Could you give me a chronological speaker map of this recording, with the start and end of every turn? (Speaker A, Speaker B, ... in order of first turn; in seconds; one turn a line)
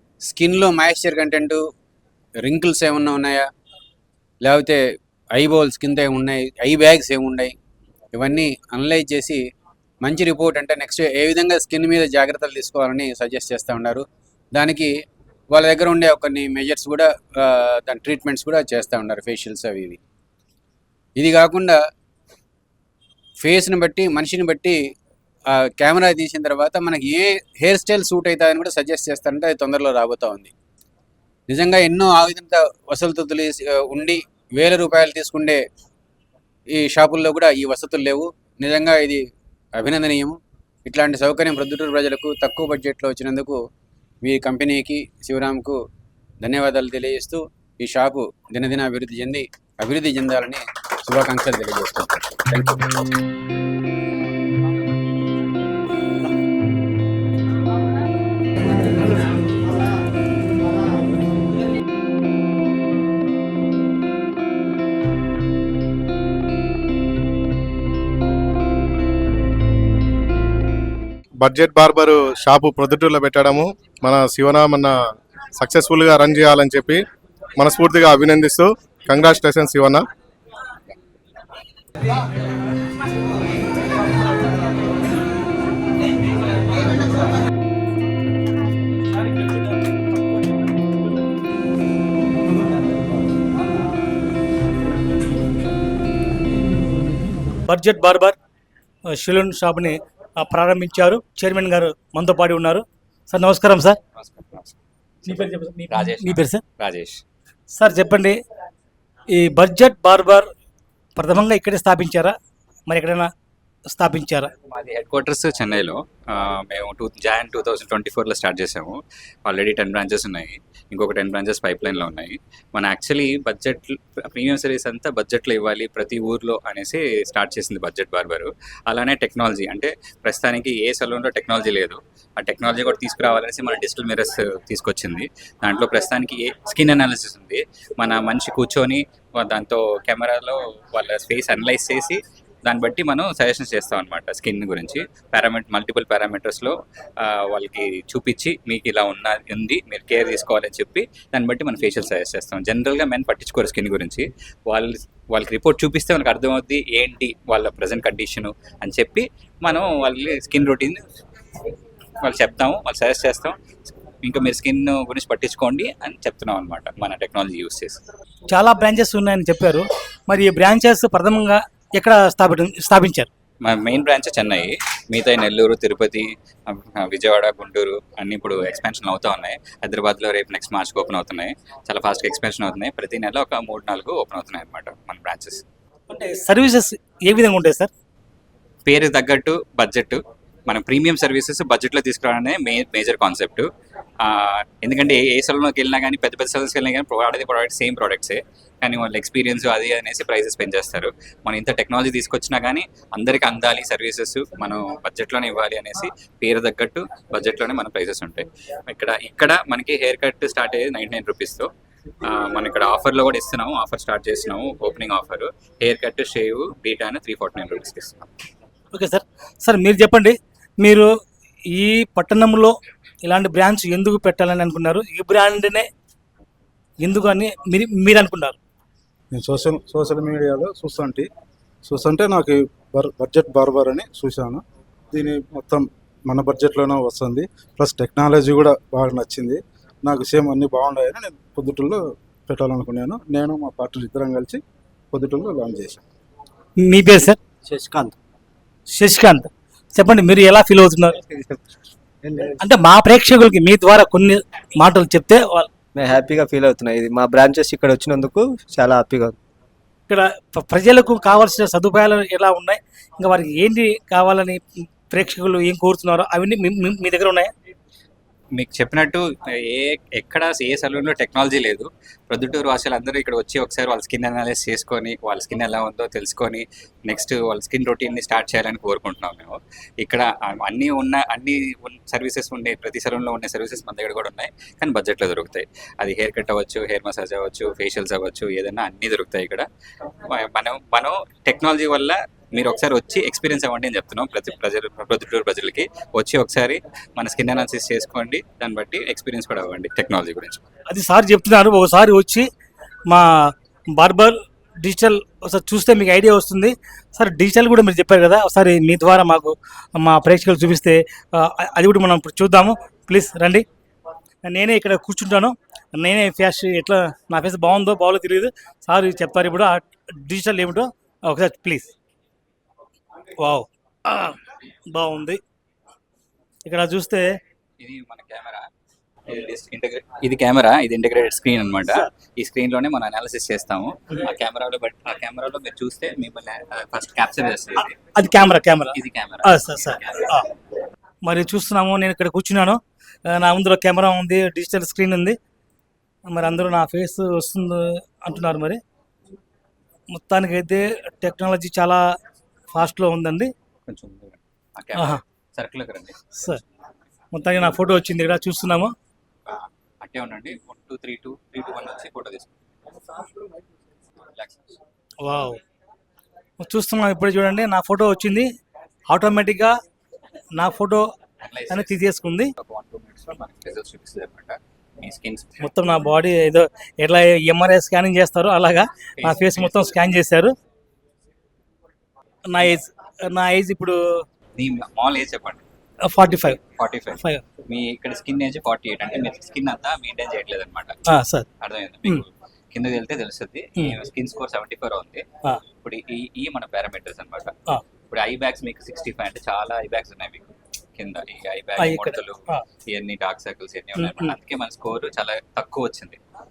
Speaker A: 0.2-1.6
Speaker A: 2.4-3.5
Speaker A: 4.4-4.8
Speaker A: 5.3-7.5
Speaker A: 8.1-9.4
Speaker A: 10.0-14.9
Speaker A: 15.5-20.0
Speaker A: 21.2-21.8
Speaker A: 23.4-24.8
Speaker A: 25.5-30.5
Speaker A: 31.5-35.6
Speaker A: 36.7-39.2
Speaker A: 39.7-43.6
Speaker A: 44.2-45.8
Speaker A: 46.4-52.8
Speaker B: 71.4-75.0
Speaker B: 75.5-77.0
Speaker B: 77.6-80.0
Speaker C: 97.7-98.3
Speaker C: 99.1-104.0
Speaker D: 104.2-107.2
Speaker C: 105.3-106.6
Speaker C: 107.7-108.4
Speaker C: 109.3-110.5
Speaker C: 111.2-112.3
Speaker C: 112.9-113.3
Speaker C: 113.9-114.5
Speaker D: 114.7-161.0
Speaker D: 162.2-163.6
Speaker D: 164.2-168.0
Speaker C: 168.5-173.3
Speaker D: 173.7-185.6
Speaker C: 186.1-187.9
Speaker D: 188.8-193.7
Speaker D: 194.2-211.7
Speaker D: 212.2-218.3
Speaker C: 218.9-221.1
Speaker C: 221.7-225.9
Speaker C: 227.0-228.6
Speaker E: 229.3-231.3
Speaker E: 231.9-244.6
Speaker E: 245.1-246.0
Speaker C: 246.8-247.4
Speaker F: 247.7-248.2
Speaker C: 248.9-251.2
Speaker F: 251.2-251.6
Speaker F: 252.2-252.6
Speaker C: 252.6-255.7
Speaker F: 255.9-259.4
Speaker C: 260.1-267.5
Speaker D: 268.6-289.6
Speaker D: 290.3-300.6
Speaker C: 300.9-302.4
Speaker C: 303.9-313.6
Speaker C: 314.4-321.9
Speaker C: 323.4-324.4
Speaker C: 324.9-325.4
Speaker C: 326.6-327.2
Speaker D: 327.8-328.7
Speaker D: 329.3-338.0
Speaker C: 337.8-340.5
Speaker D: 338.9-340.4
Speaker C: 341.2-345.4
Speaker C: 346.3-348.8
Speaker C: 350.1-352.0
Speaker C: 352.7-353.5
Speaker D: 353.9-356.3
Speaker C: 354.9-355.2
Speaker C: 356.3-356.6
Speaker C: 357.3-358.9
Speaker D: 359.5-362.5
Speaker D: 364.2-364.6
Speaker C: 365.2-365.6
Speaker C: 366.6-368.5
Speaker C: 369.1-369.7
Speaker C: 370.6-371.1
Speaker D: 371.4-375.7
Speaker C: 371.7-372.5
Speaker C: 375.6-380.5
Speaker D: 379.2-379.9
Speaker C: 382.5-384.0
Speaker D: 384.6-385.6
Speaker C: 386.1-386.6
Speaker D: 386.8-391.0
Speaker C: 391.1-391.4
Speaker D: 391.6-395.2
Speaker D: 395.8-397.5
Speaker D: 398.1-406.2
Speaker C: 401.8-402.6
Speaker C: 404.0-404.3